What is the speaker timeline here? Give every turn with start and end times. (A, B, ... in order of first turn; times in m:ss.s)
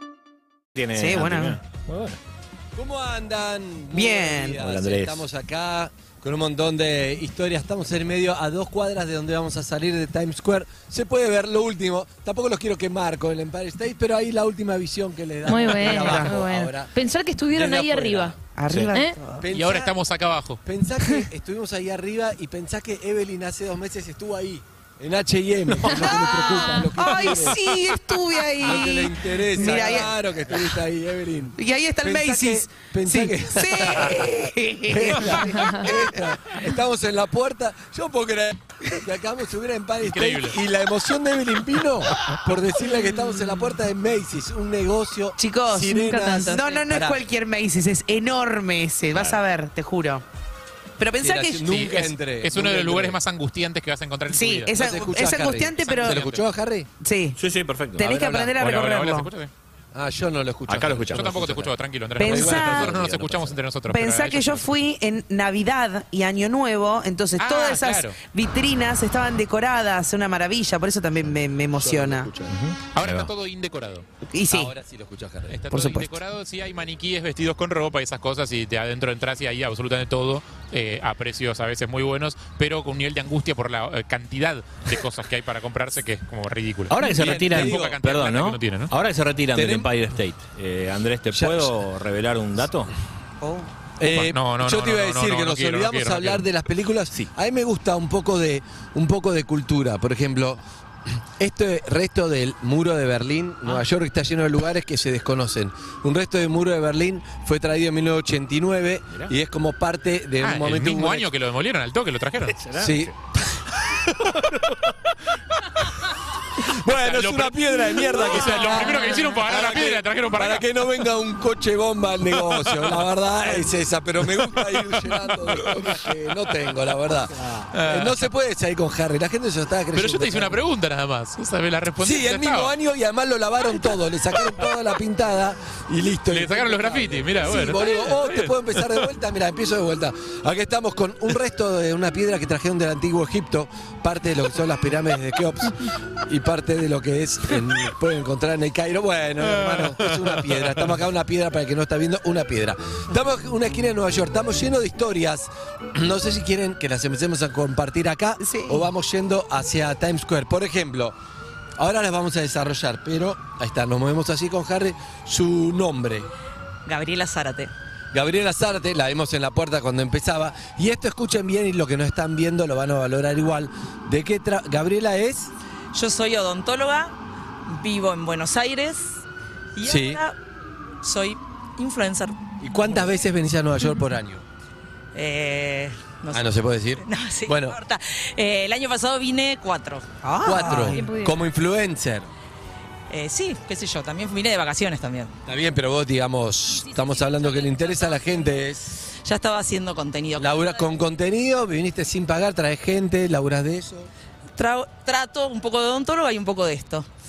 0:00.7-0:02.2 A
0:01.0-0:01.6 B
0:02.7-0:16.9 C
0:03.9-0:04.6 B
0:04.6-0:05.2 A
0:15.4-0:18.4 D
0:15.8-0:16.3 B
0:17.5-0:18.4 C
0:18.5-0:19.4 B
0:18.9-0:19.2 D
0:19.4-0:19.9 C
0:19.5-0:20.6 E
0:20.6-0:28.0 C
0:25.8-0:30.1 B
0:28.6-0:34.3 C
0:31.6-0:36.0 B
0:34.9-0:47.2 C
0:35.5-0:35.8 D
0:40.0-0:40.6 E
0:45.4-0:50.2 B
0:51.0-0:51.8 B
0:51.2-0:53.2 C
0:51.7-0:54.7 E
0:54.3-0:56.2 B
0:54.7-0:56.9 C
0:55.8-0:56.4 E
0:57.0-0:57.4 B
0:57.4-0:58.1 A
0:58.0-0:59.3 B
0:58.0-0:58.5 C
0:58.6-0:59.5 E
0:59.9-1:01.6 C
1:00.7-1:01.7 A
1:01.1-1:04.6 E
1:02.2-1:02.9 B
1:02.2-1:03.6 C
1:03.9-1:12.3 B
1:07.4-1:08.2 E
1:11.3-1:12.6 C
1:12.5-1:13.3 A
1:12.9-1:14.0 E
1:14.3-1:14.7 B
1:14.5-1:15.8 C
1:15.5-1:28.9 E
1:15.7-1:16.1 B
1:26.9-1:32.9 A
1:27.0-1:28.0 C
1:29.5-1:29.9 C
1:31.3-1:31.7 C
1:33.4-1:33.7 B
1:34.0-1:40.6 C
1:34.1-1:36.4 E
1:41.4-1:51.3 C
1:50.4-1:52.6 E
1:52.5-1:53.1 A
1:52.7-1:53.1 C
1:54.4-1:54.9 A
1:56.6-2:10.6 C
1:56.9-2:00.6 E
1:58.2-1:58.6 B
2:07.7-2:08.2 E
2:09.9-2:12.7 E
2:12.0-2:41.1 C
2:16.3-2:18.8 E
2:29.4-2:30.9 E
2:38.4-2:38.8 B
2:41.8-2:46.3 C
2:46.8-2:47.7 F
2:48.1-2:55.5 C
2:55.9-2:57.1 F
2:57.6-2:59.2 F
2:59.8-3:00.4 F
2:59.8-3:00.2 C
3:01.0-3:02.4 F
3:02.6-3:04.4 C
3:05.1-3:10.2 F
3:06.3-3:07.8 C
3:10.2-3:11.1 B
3:10.4-3:12.3 C
3:10.9-3:11.4 D
3:13.1-3:15.3 F
3:15.4-3:18.9 C
3:16.7-3:18.6 F
3:19.2-3:20.8 F
3:20.4-3:24.1 C
3:24.6-3:27.1 F